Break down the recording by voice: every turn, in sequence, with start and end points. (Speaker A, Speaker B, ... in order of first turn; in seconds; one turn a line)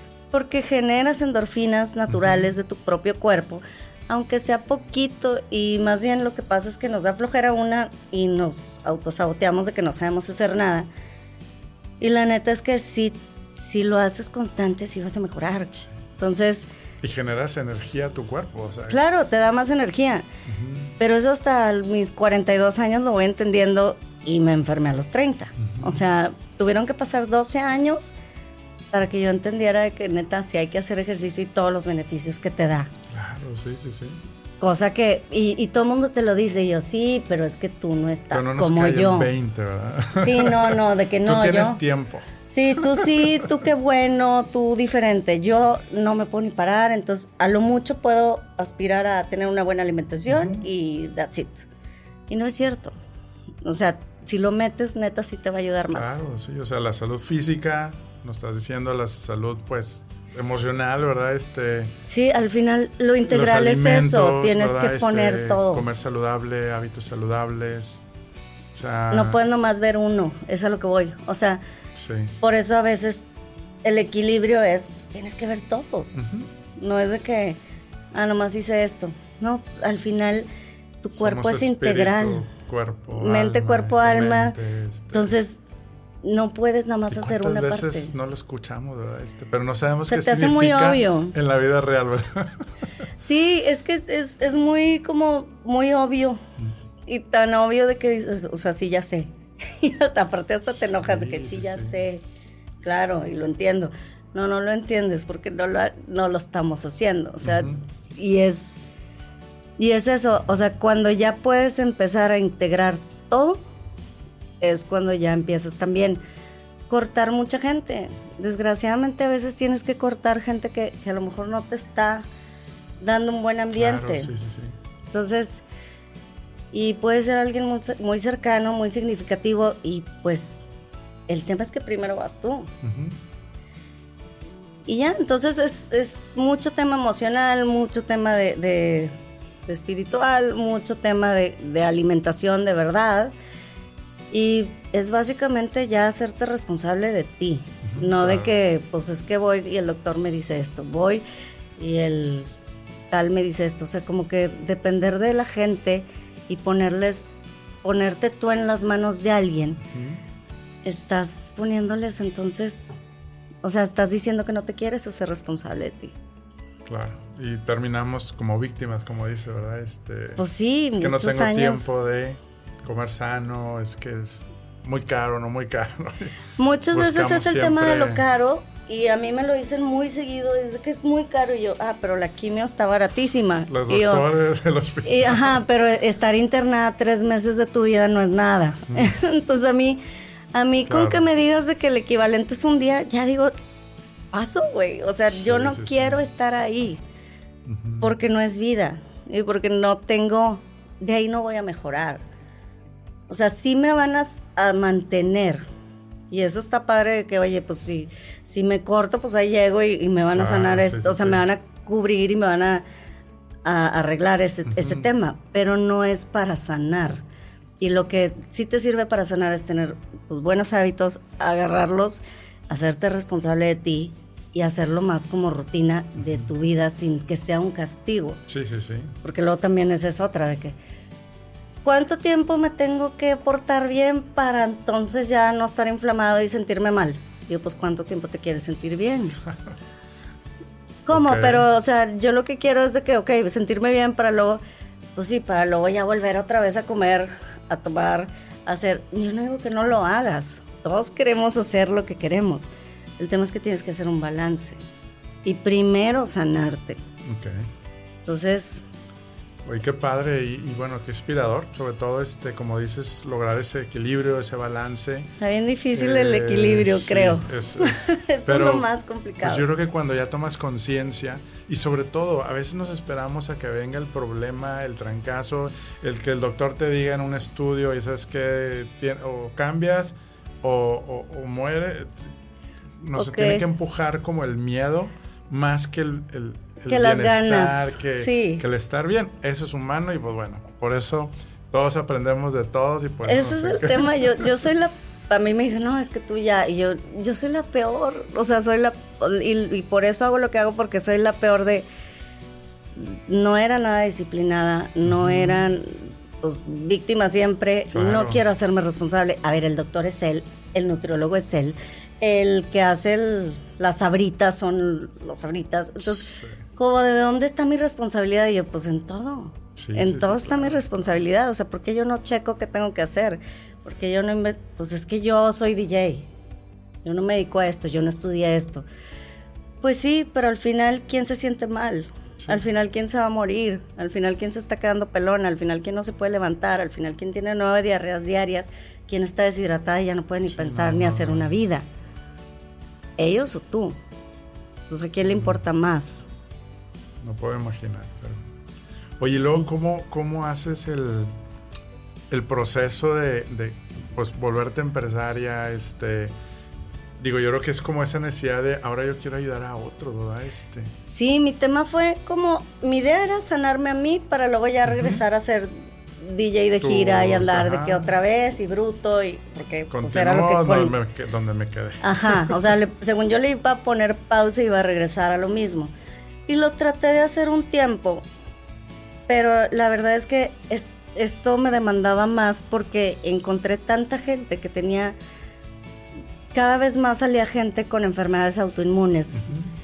Speaker A: 0.3-10.9
Speaker B: 2.1-2.5
Speaker A: 12.0-16.7
Speaker B: 17.0-19.0
Speaker A: 18.9-20.3
Speaker B: 20.5-20.9
Speaker A: 21.0-28.1
Speaker B: 25.6-26.0
Speaker A: 28.9-32.9
Speaker B: 33.1-34.2
Speaker A: 34.6-39.3
Speaker B: 38.3-43.5
Speaker A: 40.1-41.8
Speaker A: 42.5-51.7
Speaker B: 50.3-50.6
Speaker A: 52.3-53.0
Speaker A: 53.6-56.2
Speaker B: 55.9-61.9
Speaker A: 62.0-65.8
Speaker B: 63.3-68.0
Speaker B: 68.7-69.4
Speaker A: 69.1-71.6
Speaker B: 72.0-72.3
Speaker A: 72.4-73.2
Speaker A: 73.8-76.2
Speaker B: 76.1-76.5
Speaker A: 76.8-77.6
Speaker A: 78.1-80.5
Speaker A: 81.0-82.5
Speaker B: 81.1-85.3
Speaker A: 83.1-84.5
Speaker A: 85.1-85.6
Speaker A: 86.2-88.1
Speaker B: 87.1-92.6
Speaker A: 90.0-91.3
Speaker A: 93.2-96.4
Speaker A: 97.1-102.2
Speaker B: 100.6-102.0
Speaker A: 102.8-108.8
Speaker B: 107.4-107.8
Speaker A: 109.8-113.6
Speaker A: 114.6-116.2
Speaker A: 116.9-122.2
Speaker A: 123.0-124.3
Speaker B: 123.7-124.7
Speaker A: 125.1-125.6
Speaker A: 126.7-130.6
Speaker A: 131.3-132.7
Speaker B: 132.8-133.2
Speaker A: 134.8-139.1
Speaker A: 139.7-143.3
Speaker A: 144.3-151.2
Speaker B: 147.8-148.5
Speaker A: 151.8-152.5
Speaker A: 153.1-157.3
Speaker A: 157.8-159.8
Speaker B: 159.8-160.2
Speaker A: 160.8-163.0
Speaker A: 163.6-166.1
Speaker B: 166.9-176.4
Speaker A: 170.4-171.9
Speaker A: 176.6-184.2
Speaker B: 176.9-178.2
Speaker B: 183.7-185.6
Speaker A: 185.0-190.0
Speaker A: 190.5-193.5
Speaker B: 190.9-191.2
Speaker A: 194.3-197.0
Speaker B: 195.3-196.2
Speaker B: 197.7-198.1
Speaker A: 198.0-202.2
Speaker A: 203.3-205.6
Speaker A: 206.3-212.8
Speaker B: 210.3-211.4
Speaker A: 213.6-217.2
Speaker B: 214.7-215.1
Speaker A: 217.8-228.4
Speaker B: 228.5-229.1
Speaker A: 229.2-230.8
Speaker A: 231.8-239.4
Speaker A: 241.1-244.6
Speaker B: 241.1-241.6
Speaker A: 245.1-254.8
Speaker A: 255.4-257.0
Speaker B: 257.2-257.7
Speaker A: 258.2-258.8
Speaker B: 259.6-265.3
Speaker A: 265.4-269.6
Speaker B: 265.9-268.9
Speaker B: 269.4-282.3
Speaker B: 283.0-294.3
Speaker A: 283.1-283.6
Speaker A: 286.9-288.6
Speaker A: 293.2-301.9
Speaker A: 302.9-326.3
Speaker B: 305.0-305.6
Speaker B: 307.9-308.4
Speaker B: 316.1-316.6
Speaker B: 319.8-320.8
Speaker A: 327.0-328.9
Speaker A: 329.8-341.9
Speaker B: 340.5-341.5
Speaker A: 343.2-344.0
Speaker A: 344.9-346.3
Speaker B: 345.3-345.6
Speaker B: 347.2-348.4
Speaker B: 349.2-351.3
Speaker B: 352.3-356.3
Speaker B: 357.2-360.9
Speaker A: 361.1-370.9
Speaker B: 364.9-365.2
Speaker B: 366.8-368.1
Speaker B: 369.9-372.6
Speaker A: 372.0-375.9
Speaker A: 376.5-378.2
Speaker A: 379.3-385.1
Speaker A: 386.5-389.4
Speaker B: 389.4-389.7